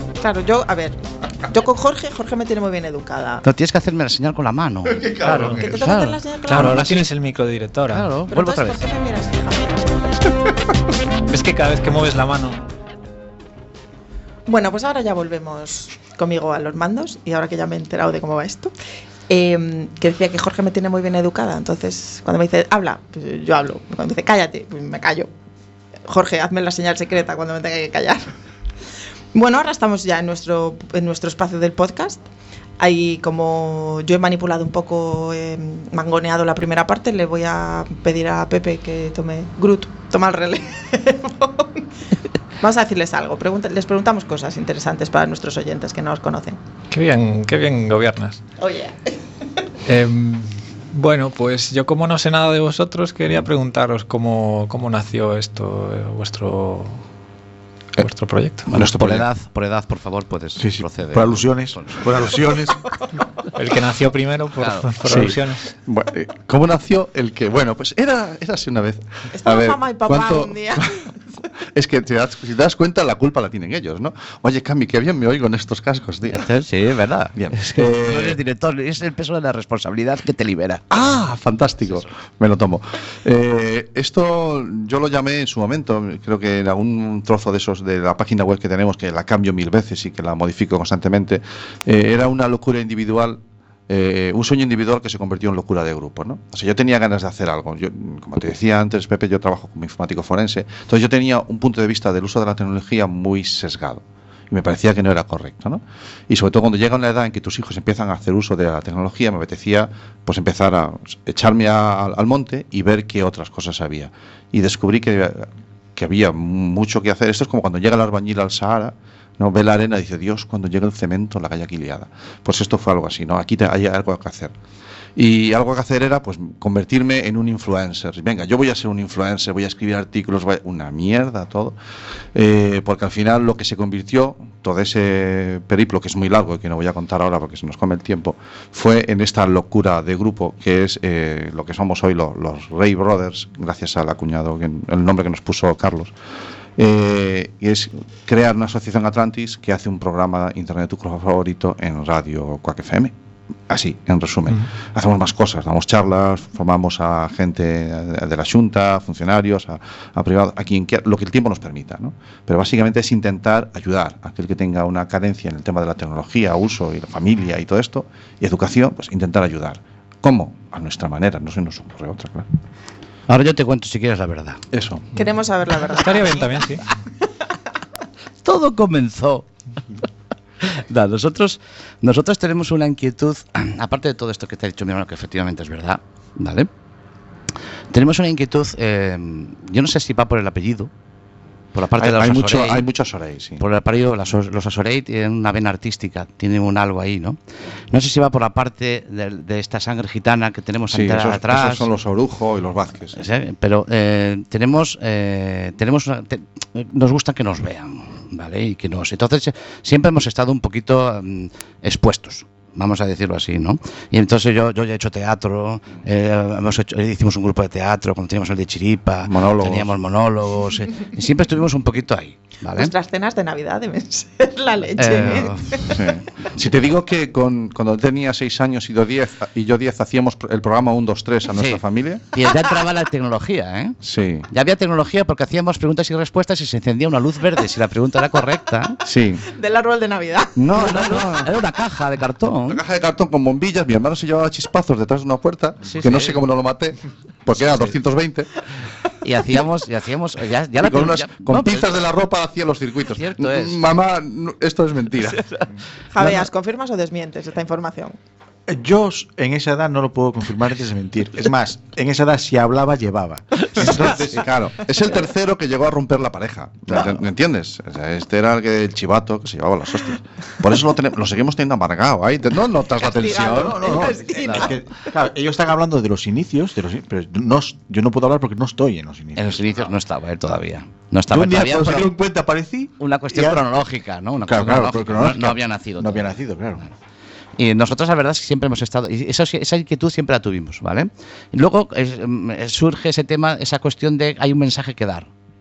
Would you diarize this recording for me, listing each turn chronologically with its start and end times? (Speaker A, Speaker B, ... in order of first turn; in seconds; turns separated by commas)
Speaker A: 0.2-3.4, Speaker B: 3.4-7.0, Speaker C: 5.0-5.5, Speaker D: 5.2-5.8, Speaker A: 5.4-7.1, Speaker D: 6.5-8.1, Speaker B: 7.9-8.8, Speaker A: 8.3-10.0, Speaker D: 11.3-12.6, Speaker A: 14.5-18.7, Speaker A: 19.3-25.3, Speaker A: 26.1-28.3, Speaker A: 29.3-32.3, Speaker A: 32.8-41.9, Speaker A: 42.6-46.6, Speaker D: 46.9-48.4, Speaker A: 48.6-49.1, Speaker D: 49.9-57.0, Speaker D: 58.0-58.7, Speaker B: 58.7-62.4, Speaker C: 58.7-59.3, Speaker E: 60.6-62.9, Speaker D: 63.5-65.7, Speaker B: 64.6-64.9, Speaker C: 65.0-71.0, Speaker A: 69.3-71.1, Speaker C: 71.8-76.5, Speaker B: 76.3-80.8, Speaker C: 77.3-78.4, Speaker C: 80.9-124.5, Speaker C: 125.2-131.8, Speaker C: 132.3-146.1, Speaker C: 146.8-153.1, Speaker C: 153.7-172.5, Speaker B: 173.3-174.6, Speaker C: 174.7-175.1, Speaker A: 175.2-176.6, Speaker D: 175.9-176.9, Speaker B: 178.4-179.5, Speaker B: 180.6-186.7, Speaker B: 187.9-190.9, Speaker B: 191.7-192.9, Speaker C: 192.0-193.6, Speaker B: 193.6-197.4, Speaker B: 197.9-201.9, Speaker C: 200.9-203.2, Speaker B: 203.2-222.9, Speaker C: 219.2-219.9, Speaker A: 222.7-226.1, Speaker B: 225.0-226.0, Speaker C: 225.9-232.3, Speaker B: 231.5-231.8, Speaker B: 232.3-234.0, Speaker C: 234.0-234.5, Speaker B: 234.5-239.0, Speaker C: 239.0-239.4, Speaker A: 239.5-240.9, Speaker C: 240.6-241.5, Speaker B: 240.7-242.8, Speaker C: 242.7-248.5, Speaker B: 245.8-246.4, Speaker B: 247.6-247.9, Speaker B: 249.2-252.0, Speaker C: 250.8-255.4, Speaker B: 253.1-253.8, Speaker B: 255.3-255.6, Speaker A: 256.1-258.2, Speaker E: 258.7-264.1, Speaker C: 263.7-274.1, Speaker A: 273.0-275.1, Speaker E: 273.4-279.9, Speaker B: 274.5-274.7, Speaker B: 279.4-282.1, Speaker E: 281.3-283.6, Speaker B: 283.0-286.2, Speaker E: 284.4-286.9, Speaker B: 287.6-295.3